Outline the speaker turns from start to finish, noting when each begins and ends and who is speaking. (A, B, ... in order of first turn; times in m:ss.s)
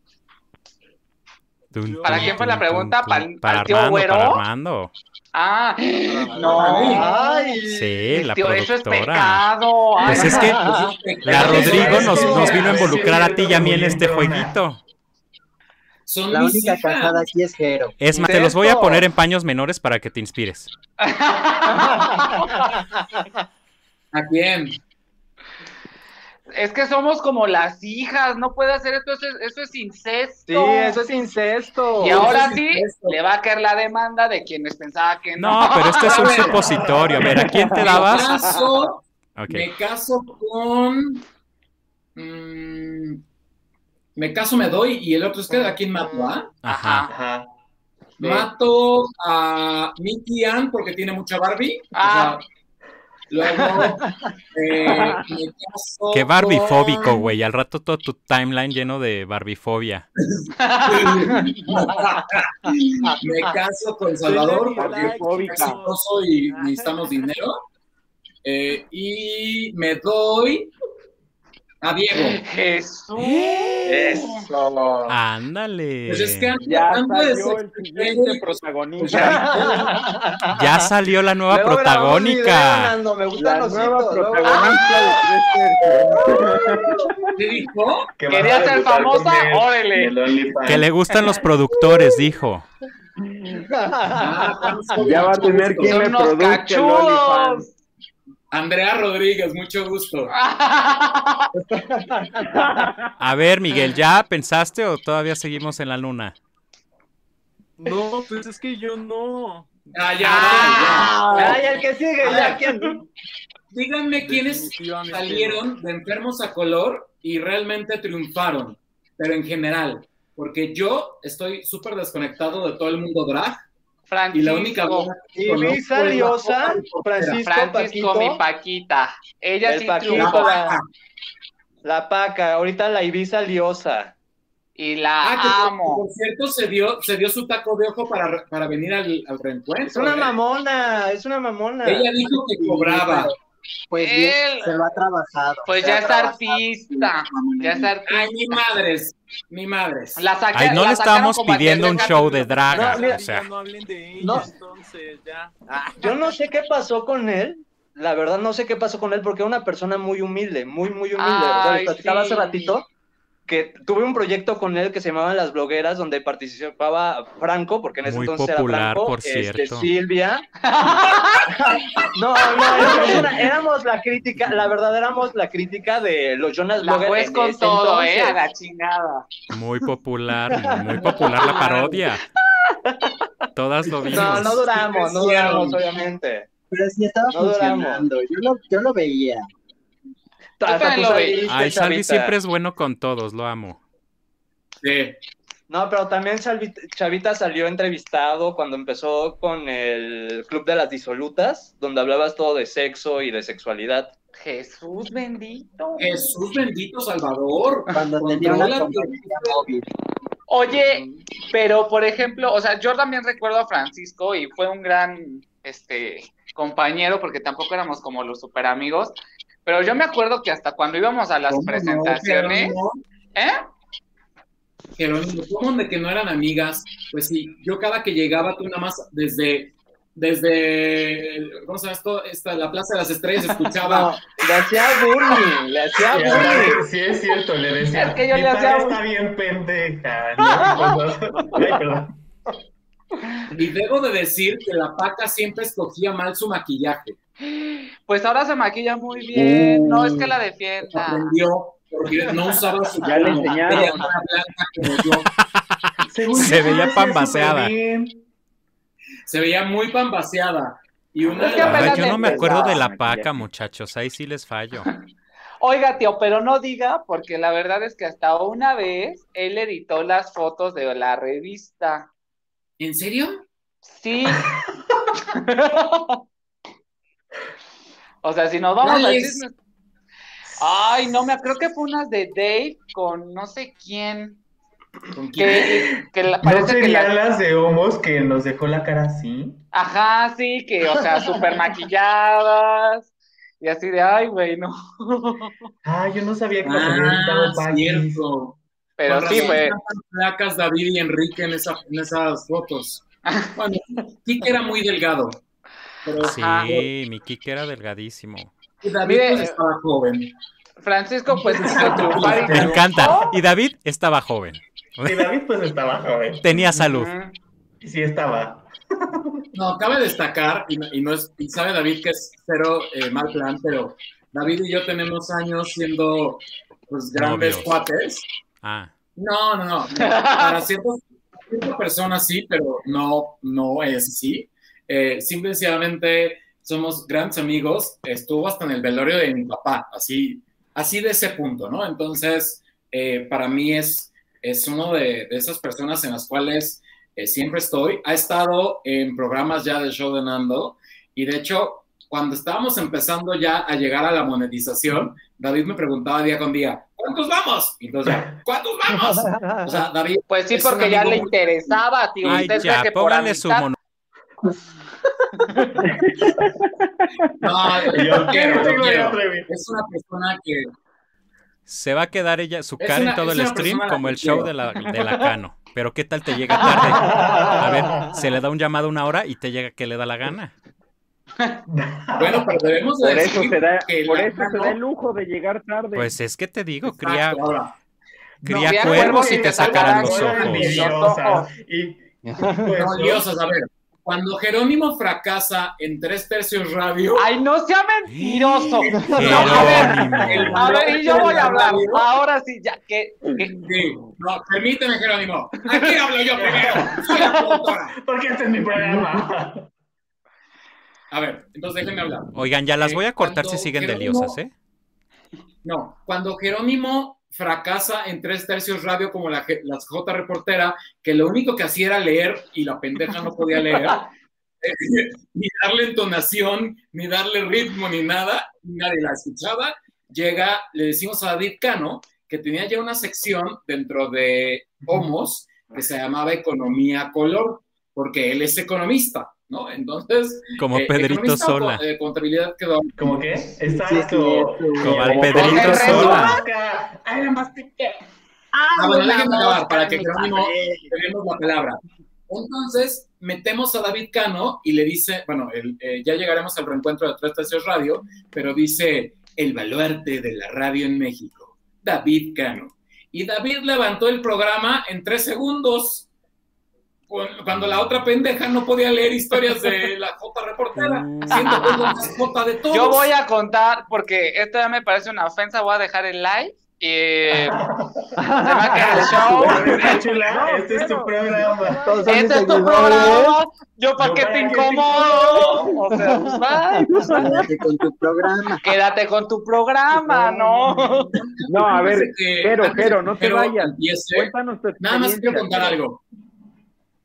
0:01.7-0:04.9 A
0:01.8-0:02.4 B
0:02.0-0:04.4 C
0:05.3-0:07.5 C
0:06.1-0:08.0 D
0:06.5-0:07.1 E
0:07.1-0:07.4 F
0:07.7-0:09.5 A
0:08.1-0:10.7 C
0:10.0-0:14.8 A
0:10.0-0:13.1 E
0:10.3-0:10.9 D
0:11.3-0:14.6 G
0:16.1-0:17.2 E
0:16.3-0:17.9 F
0:18.0-0:20.7 A
0:18.2-0:18.6 E
0:21.0-0:22.7 C
0:21.7-0:23.0 D
0:24.1-0:24.8 E
0:26.5-0:31.0 C
0:30.5-0:32.4 D
0:32.0-0:36.3 C
0:32.1-0:33.2 E
0:35.4-0:38.3 A
0:36.0-0:36.6 E
0:36.2-0:37.4 G
0:37.2-0:38.6 H
0:37.8-0:41.2 E
0:39.4-0:39.7 A
0:42.2-0:43.2 E
0:44.2-0:46.5 E
0:46.6-0:47.1 A
0:46.7-0:47.1 C
0:47.1-0:47.5 G
0:48.2-0:52.4 E
0:51.9-0:52.4 C
0:53.3-0:57.1 E
0:54.8-0:55.2 H
0:56.1-1:00.1 A
1:00.3-1:07.6 E
1:00.6-1:01.5 C
1:04.2-1:05.9 B
1:04.8-1:05.8 H
1:08.4-1:10.7 E
1:11.8-1:12.4 E
1:12.1-1:14.5 C
1:15.1-1:16.6 A
1:16.1-1:20.0 E
1:16.6-1:19.7 H
1:19.2-1:20.5 D
1:20.5-1:23.0 A
1:21.5-1:25.2 D
1:23.4-1:27.0 H
1:25.8-1:27.0 G
1:27.4-1:28.1 E
1:28.2-1:30.9 G
1:28.3-1:30.2 C
1:30.7-1:32.7 A
1:33.7-1:34.2 D
1:34.2-1:36.0 E
1:35.0-1:37.6 H
1:35.8-1:37.7 C
1:38.5-1:40.3 E
1:40.4-1:41.5 C
1:41.8-1:42.6 D
1:42.4-1:42.9 H
1:43.2-1:46.4 A
1:47.8-1:50.2 B
1:49.9-1:52.6 E
1:50.2-1:51.8 C
1:50.5-1:50.7 D
1:51.3-1:53.0 D
1:53.7-2:03.6 E
1:54.2-1:55.7 B
2:04.1-2:05.1 C
2:04.3-2:07.4 E
2:05.3-2:08.4 D
2:07.4-2:10.6 C
2:09.6-2:10.8 D
2:10.1-2:10.9 E
2:11.8-2:14.1 D
2:14.8-2:16.0 C
2:15.2-2:20.4 E
2:19.9-2:23.3 D
2:21.8-2:23.3 E
2:23.9-2:26.6 F
2:24.0-2:24.8 C
2:25.6-2:28.3 C
2:28.1-2:30.2 E
2:30.2-2:32.3 C
2:30.5-2:33.5 A
2:31.9-2:35.5 B
2:32.8-2:33.2 D
2:34.2-2:34.5 D
2:35.7-2:42.8 D
2:41.2-2:42.8 C
2:43.5-2:50.4 D
2:48.0-2:49.9 A
2:50.6-2:51.5 C
2:51.5-2:58.4 D
2:52.5-2:53.2 C
2:52.8-2:53.1 E
2:56.8-2:59.3 C
2:59.5-3:02.2 A
3:00.6-3:02.1 D
3:01.5-3:01.8 C
3:03.6-3:04.6 A
3:04.0-3:06.5 D
3:04.7-3:05.8 E
3:06.7-3:09.5 F
3:07.3-3:08.1 D
3:10.6-3:12.3 D
3:10.6-3:11.5 C
3:11.5-3:13.8 A
3:14.8-3:15.2 E
3:15.7-3:24.1 D
3:24.3-3:26.3 C
3:26.0-3:29.6 E
3:27.9-3:29.9 F
3:30.5-3:42.8 C
3:41.5-3:43.0 E
3:45.0-3:54.1 E
3:53.8-3:56.8 D
3:56.0-4:02.2 G
3:56.3-3:56.6 C
3:57.9-3:59.0 C
4:00.4-4:01.0 C
4:03.5-4:07.2 E
4:07.4-4:11.3 C
4:09.3-4:10.3 E
4:10.8-4:15.3 E
4:13.0-4:14.1 H
4:13.1-4:14.1 D
4:16.1-4:18.2 G
4:16.3-4:17.7 A
4:16.4-4:16.8 E
4:19.3-4:22.3 E
4:21.4-4:22.8 C
4:21.6-4:24.9 A
4:21.6-4:23.4 H
4:25.6-4:32.1 C
4:32.8-4:33.4 E
4:33.8-4:34.4 C
4:35.1-4:36.2 C
4:38.2-4:39.5 C
4:38.8-4:39.4 E
4:40.6-4:44.4 C
4:45.1-4:45.9 E
4:45.4-4:47.1 C
4:46.4-4:49.6 G
4:49.7-4:53.1 C
4:53.6-4:55.5 C
4:55.8-4:58.2 G
4:56.6-5:05.4 E
4:59.0-4:59.8 C
5:06.0-5:06.9 E
5:06.2-5:08.5 A
5:06.3-5:06.7 C
5:08.8-5:10.3 E
5:09.0-5:09.6 C
5:10.8-5:13.3 C
5:11.3-5:13.0 E
5:12.5-5:15.3 A
5:12.6-5:13.4 G
5:15.1-5:16.7 G
5:16.4-5:17.1 A
5:16.8-5:17.4 C
5:17.8-5:18.7 G
5:19.5-5:28.2 E
5:27.1-5:27.8 A
5:28.6-5:28.9 A
5:29.2-6:02.6 E
5:30.0-5:30.6 C
6:00.3-6:03.7 C
6:02.3-6:03.8 A
6:05.4-6:05.7 C
6:05.8-6:06.5 G
6:07.4-6:10.7 E
6:07.8-6:09.5 G
6:11.7-6:20.5 A
6:12.8-6:14.5 E
6:15.0-6:15.3 C
6:16.5-6:17.3 C
6:17.0-6:18.2 G
6:21.7-6:22.6 G
6:22.2-6:24.8 E
6:23.0-6:26.1 H
6:26.0-6:27.5 A
6:26.9-6:27.7 E
6:28.4-6:31.0 A
6:28.5-6:33.3 G
6:28.6-6:31.5 C
6:32.8-6:37.3 E
6:37.2-6:43.6 C
6:38.1-6:40.7 A
6:39.0-6:39.4 D
6:39.1-6:42.1 E
6:43.6-6:48.0 E
6:46.4-6:47.2 G
6:48.0-6:49.7 G
6:51.1-6:54.4 E
6:52.4-6:54.5 A
6:55.6-7:04.0 E
7:03.7-7:04.0 C
7:04.6-7:23.2 E
7:20.6-7:21.8 A
7:23.0-7:28.0 G
7:23.8-7:25.0 F
7:24.8-7:26.4 A
7:25.4-7:26.4 C
7:25.4-7:26.3 E
7:28.6-7:29.6 F
7:28.8-7:46.1 E
7:29.4-7:30.5 D
7:47.1-7:53.1 E
7:50.8-7:51.5 A
7:51.3-7:52.0 C
7:52.7-7:57.6 C
7:57.4-7:58.1 G
7:58.2-8:03.4 D
7:58.4-8:00.5 C
7:58.8-7:59.8 E
7:58.9-8:03.2 G
8:02.1-8:06.8 C
8:04.0-8:06.2 G
8:06.1-8:07.3 D
8:06.8-8:07.3 H
8:07.0-8:08.8 F
8:08.6-8:11.1 C
8:10.0-8:11.1 D
8:11.5-8:15.8 H
8:11.5-8:16.0 E